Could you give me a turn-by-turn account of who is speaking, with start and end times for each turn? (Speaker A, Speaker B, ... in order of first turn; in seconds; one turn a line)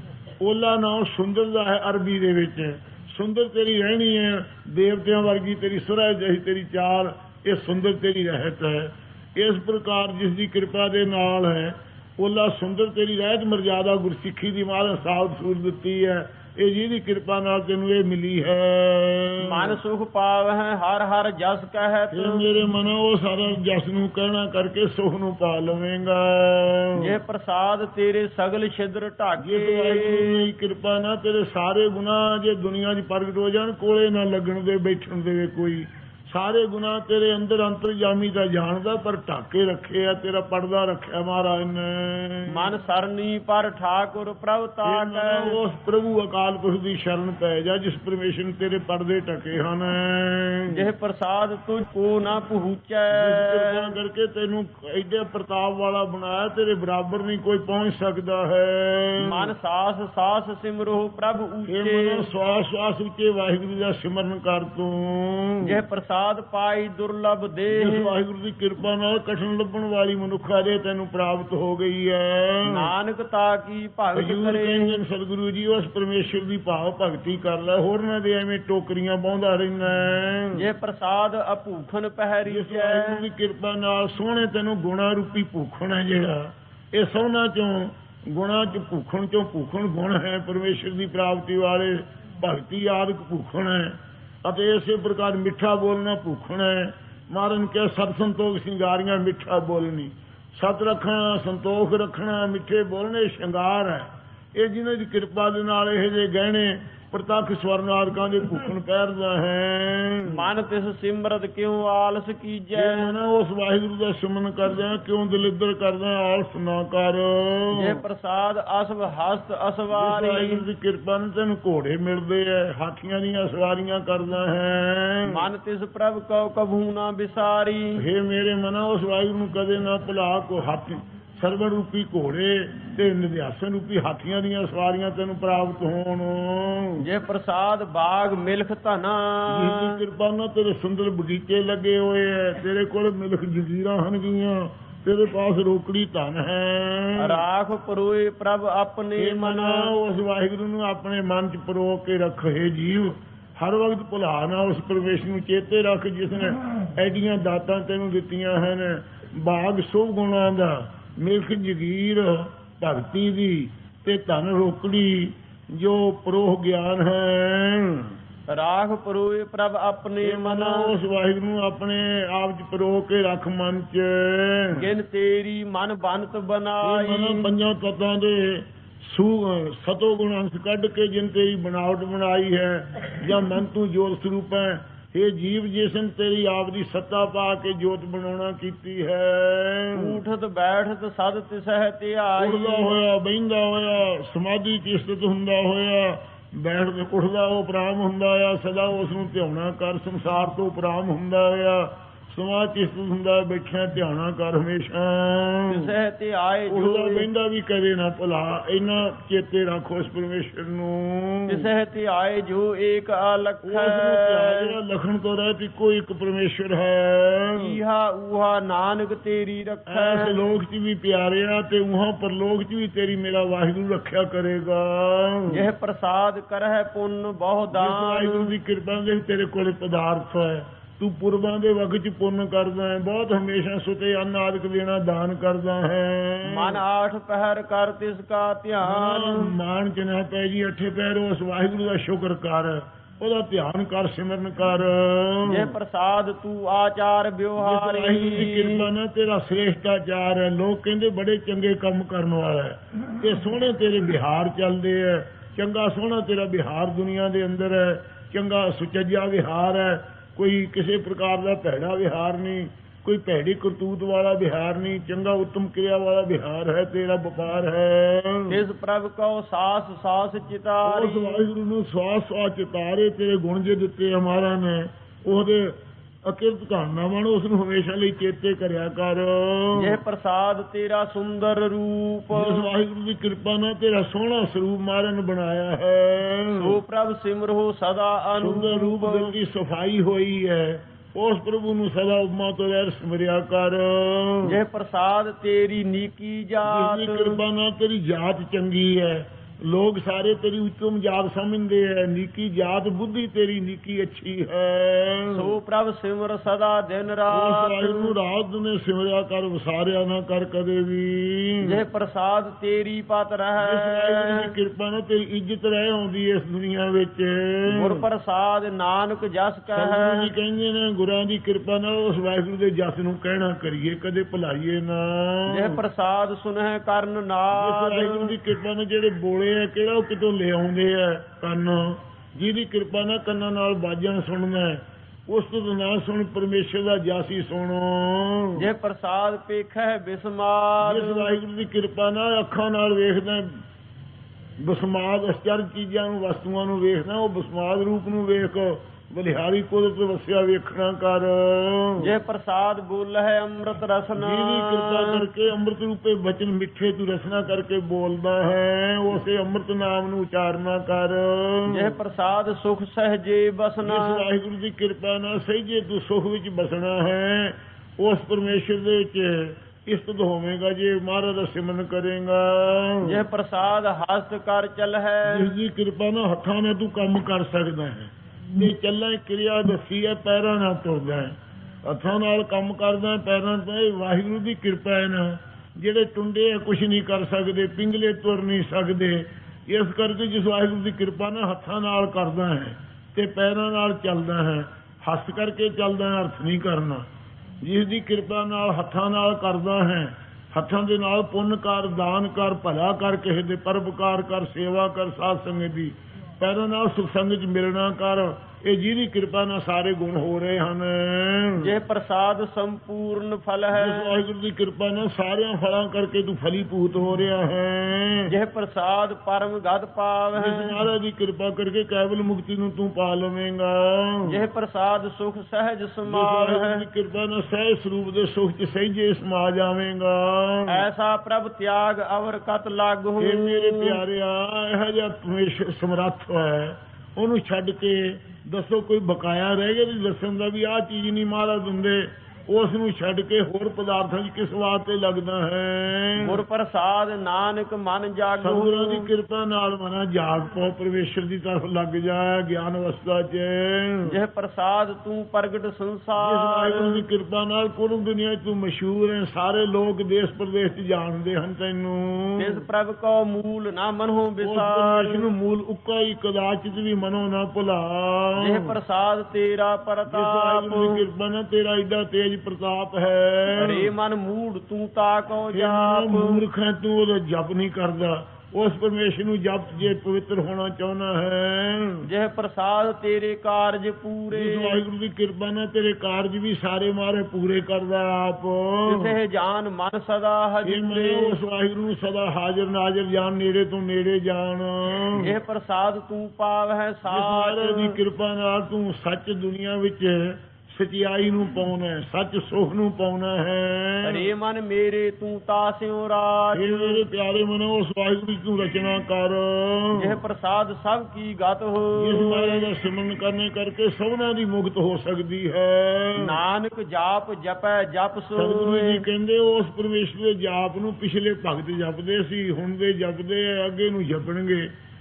Speaker A: 0.4-19.8
Speaker B: 19.4-22.4
Speaker A: 22.1-27.2
Speaker B: 27.0-30.5
Speaker A: 29.4-42.8
Speaker B: 42.5-45.6
Speaker A: 44.9-50.9
Speaker B: 50.7-54.0
Speaker A: 53.1-59.5
Speaker B: 59.2-62.3
Speaker A: 61.7-65.8
Speaker B: 65.6-68.1
Speaker A: 67.8-72.9
Speaker B: 72.7-75.0
Speaker A: 74.2-80.7
Speaker B: 80.5-83.3
Speaker A: 82.5-110.5
Speaker B: 110.2-113.2
Speaker A: 112.8-118.0
Speaker B: 117.7-120.6
Speaker A: 119.9-125.5
Speaker B: 125.3-128.0
Speaker A: 128.0-137.1
Speaker B: 137.0-140.0
Speaker A: 139.5-147.4
Speaker B: 147.2-149.9
Speaker A: 149.2-168.2
Speaker B: 168.5-171.0
Speaker A: 170.2-174.9
Speaker B: 174.7-177.5
Speaker A: 176.8-190.2
Speaker B: 189.9-193.0
Speaker A: 192.4-205.9
Speaker B: 205.7-207.3
Speaker A: 206.7-211.7
Speaker B: 211.5-214.8
Speaker A: 213.6-217.8
Speaker B: 217.6-220.4
Speaker A: 219.9-225.7
Speaker B: 225.5-228.5
Speaker A: 227.7-236.8
Speaker B: 236.4-239.6
Speaker A: 238.8-245.7
Speaker B: 245.5-248.9
Speaker A: 247.6-268.6
Speaker B: 268.5-271.4
Speaker A: 270.9-280.0
Speaker B: 279.8-282.7
Speaker A: 282.3-286.8
Speaker B: 286.6-289.4
Speaker A: 288.4-294.6
Speaker B: 294.4-297.4
Speaker A: 296.6-305.6
Speaker B: 305.3-308.1
Speaker A: 307.3-311.8
Speaker B: 311.6-314.5
Speaker A: 313.6-318.1
Speaker B: 317.7-320.3
Speaker A: 319.7-325.8
Speaker B: 325.5-328.3
Speaker A: 327.6-338.7
Speaker B: 338.6-341.3
Speaker A: 340.8-343.6
Speaker A: 344.6-352.1
Speaker B: 352.0-355.3
Speaker A: 354.2-361.9
Speaker B: 361.7-364.3
Speaker A: 363.9-373.2
Speaker B: 373.1-375.5
Speaker A: 375.3-397.1
Speaker A: 397.6-411.7
Speaker B: 411.6-414.2
Speaker A: 413.7-418.3
Speaker B: 418.3-420.8
Speaker A: 420.4-424.4
Speaker B: 424.3-426.9
Speaker A: 426.1-430.9
Speaker B: 430.7-434.0
Speaker A: 433.2-446.4
Speaker B: 446.2-449.1
Speaker A: 448.4-454.2
Speaker B: 454.1-457.1
Speaker A: 456.2-462.6
Speaker B: 462.4-465.3
Speaker A: 464.4-468.7
Speaker B: 468.4-471.1
Speaker A: 470.1-473.9
Speaker B: 473.6-476.4
Speaker A: 475.5-482.1
Speaker B: 482.0-484.8
Speaker A: 484.3-489.2
Speaker B: 488.9-491.4
Speaker A: 490.6-495.3
Speaker B: 495.2-498.0
Speaker A: 497.1-504.3
Speaker B: 504.1-507.0
Speaker A: 506.6-510.2
Speaker B: 510.0-512.7
Speaker A: 512.0-516.4
Speaker B: 516.2-519.1
Speaker A: 518.4-524.7